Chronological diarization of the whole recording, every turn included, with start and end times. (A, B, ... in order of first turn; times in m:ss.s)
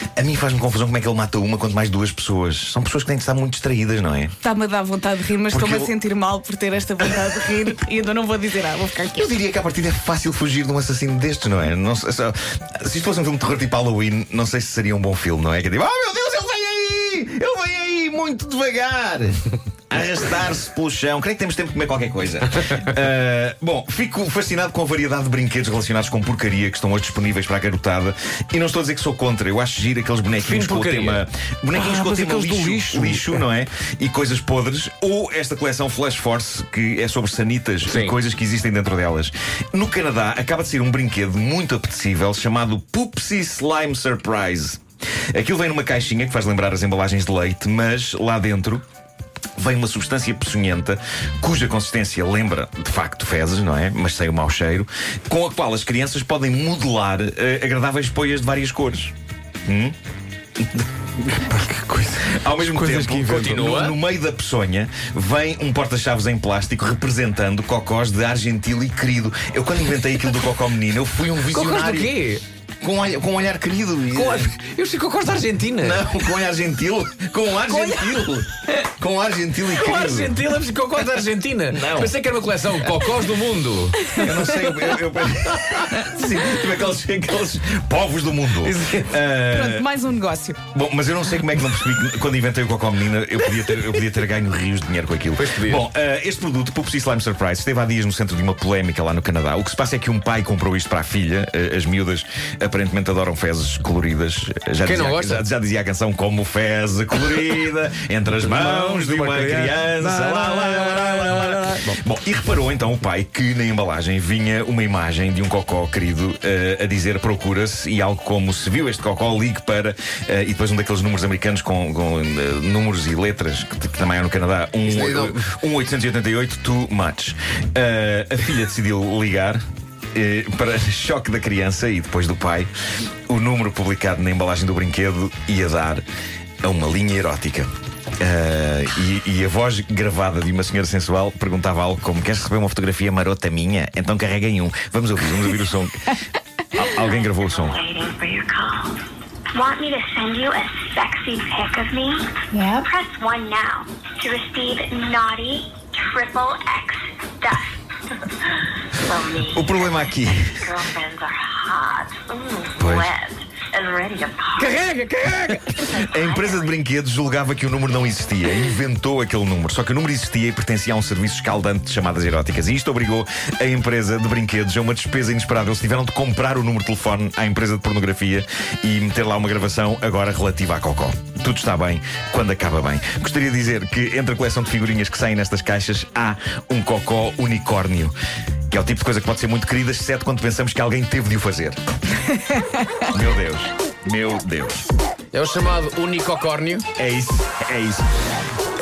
0:00.2-0:04.3 A
0:04.4-0:09.3 B
0:05.5-0:05.9 A
0:07.0-0:07.5 A
0:09.1-0:44.8 A
0:30.4-0:31.2 C
0:31.7-0:33.4 D
0:37.9-0:38.1 C
0:45.3-0:48.8 A
0:49.6-0:59.1 A
0:59.6-1:00.0 A
1:01.3-1:03.6 D
1:02.3-1:12.2 A
1:03.3-1:04.0 C
1:11.5-1:12.4 C
1:12.8-1:14.5 A
1:14.1-1:16.0 C
1:15.8-1:20.4 A
1:17.7-1:18.2 B
1:19.7-1:24.0 C
1:21.7-1:22.1 A
1:24.1-1:24.5 B
1:24.1-1:29.9 A
1:28.6-1:29.2 C
1:29.4-1:30.6 B
1:30.7-2:09.6 A
1:35.3-1:35.8 C
1:44.8-1:45.4 C
1:48.4-1:52.0 D
2:10.1-2:12.7 A
2:13.3-2:16.0 A
2:16.6-2:17.7 A
2:18.2-2:26.1 A
2:26.7-2:27.8 A
2:27.4-2:29.0 E
2:29.5-2:37.8 E
2:39.0-2:44.8 E
2:39.5-2:40.6 A
2:42.8-2:43.1 A
2:44.6-3:08.1 A
2:45.9-2:46.7 E
3:08.7-3:11.8 A
3:13.1-3:14.8 A
3:15.3-3:16.8 C
3:17.0-3:18.0 A